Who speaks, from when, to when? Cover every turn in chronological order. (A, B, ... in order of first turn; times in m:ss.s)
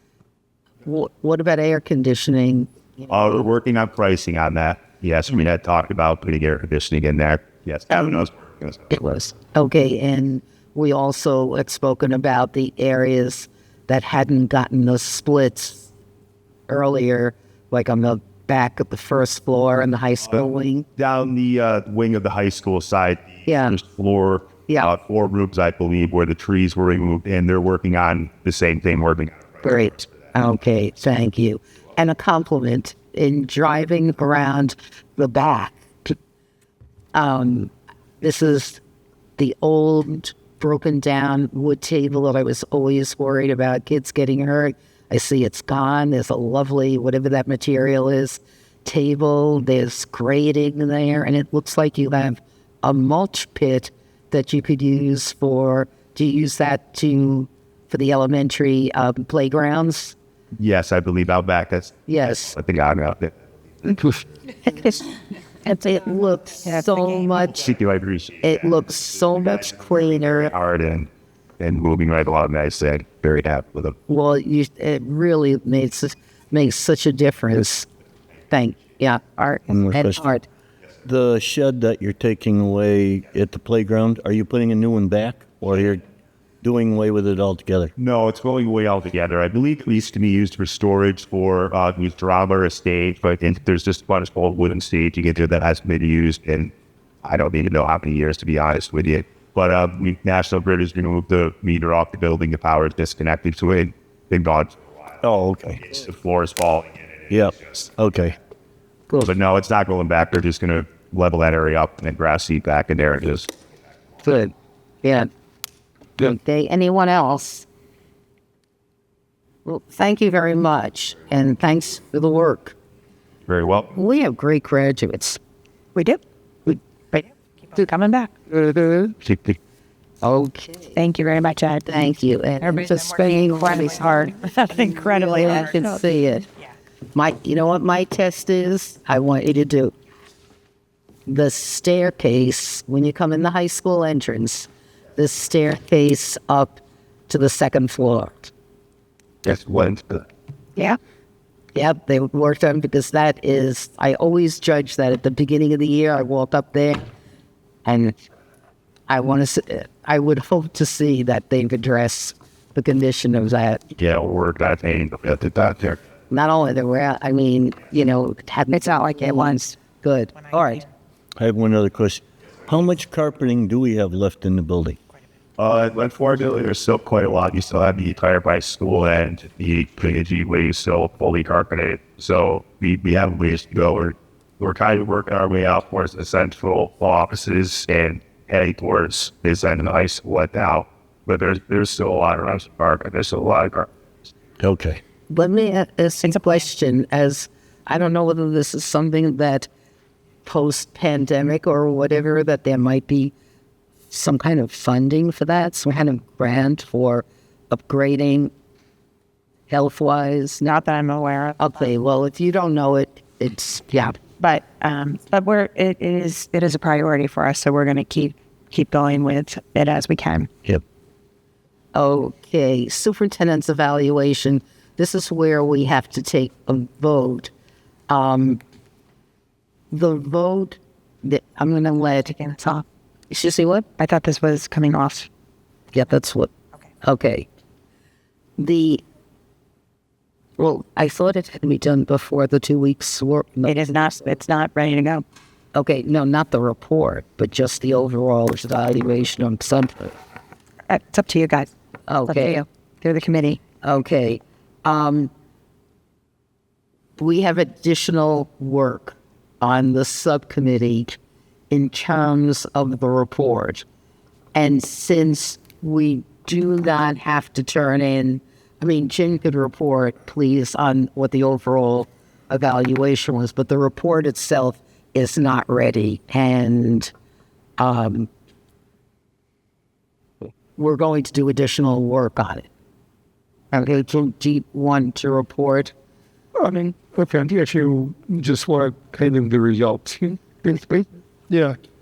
0:00.8-0:02.9 A
0:03.1-0:08.8 B
0:08.9-0:15.9 A
0:16.7-0:20.8 A
0:21.0-0:29.6 B
0:23.4-0:23.8 A
0:29.6-0:36.2 A
0:37.1-0:38.8 A
0:39.4-1:00.1 A
1:00.6-1:03.3 B
1:02.1-1:02.5 A
1:03.9-1:04.1 B
1:05.6-1:07.6 A
1:06.6-1:07.3 C
1:07.5-1:08.6 B
1:08.4-1:10.5 A
1:10.4-1:14.0 B
1:14.1-1:17.9 A
1:18.5-1:20.5 A
1:19.7-1:20.2 D
1:21.0-1:26.0 D
1:26.6-1:27.9 D
1:28.0-1:36.7 B
1:37.2-1:44.8 B
1:45.2-1:45.9 D
1:45.9-1:47.3 B
1:47.3-1:48.4 D
1:49.2-1:53.5 B
1:54.2-1:55.3 A
1:56.2-1:57.6 A
1:59.6-2:02.7 A
2:03.5-2:03.9 B
2:03.9-2:05.4 A
2:05.9-2:06.2 C
2:07.1-2:08.3 C
2:08.5-2:09.0 A
2:09.2-2:09.6 B
2:10.2-2:11.0 A
2:10.9-2:11.8 C
2:11.8-2:14.3 A
2:12.6-2:16.0 C
2:15.0-2:16.4 A
2:17.1-2:19.9 A
2:21.3-2:28.5 A
2:29.4-2:30.2 B
2:31.7-2:37.0 A
2:37.8-2:38.2 A
2:39.1-2:43.8 A
2:44.0-2:46.0 B
2:46.3-2:50.8 A
2:48.7-2:49.8 C
2:51.4-2:55.0 D
2:55.6-3:13.9 B
3:14.6-3:15.0 D
3:15.3-3:19.7 A
3:20.4-3:23.3 A
3:24.1-3:28.5 A
3:29.7-3:30.6 A
3:30.6-3:31.8 C
3:31.6-3:34.2 A
3:34.4-3:40.5 C
3:41.9-3:47.5 A
3:48.1-3:48.6 A
3:49.9-3:53.9 A
3:54.0-3:55.3 C
3:55.9-3:56.5 A
3:57.0-3:57.4 A
3:58.6-3:59.0 A
4:00.6-4:03.9 A
4:03.6-4:05.2 C
4:05.7-4:10.1 A
4:10.9-4:11.7 C
4:12.1-4:12.6 A
4:12.2-4:13.6 C
4:13.8-4:15.3 A
4:17.2-4:21.2 A
4:21.7-4:23.8 A
4:24.5-4:37.1 A
4:37.8-4:38.3 A
4:40.8-4:42.7 A
4:43.7-4:45.9 A
4:46.6-4:51.8 E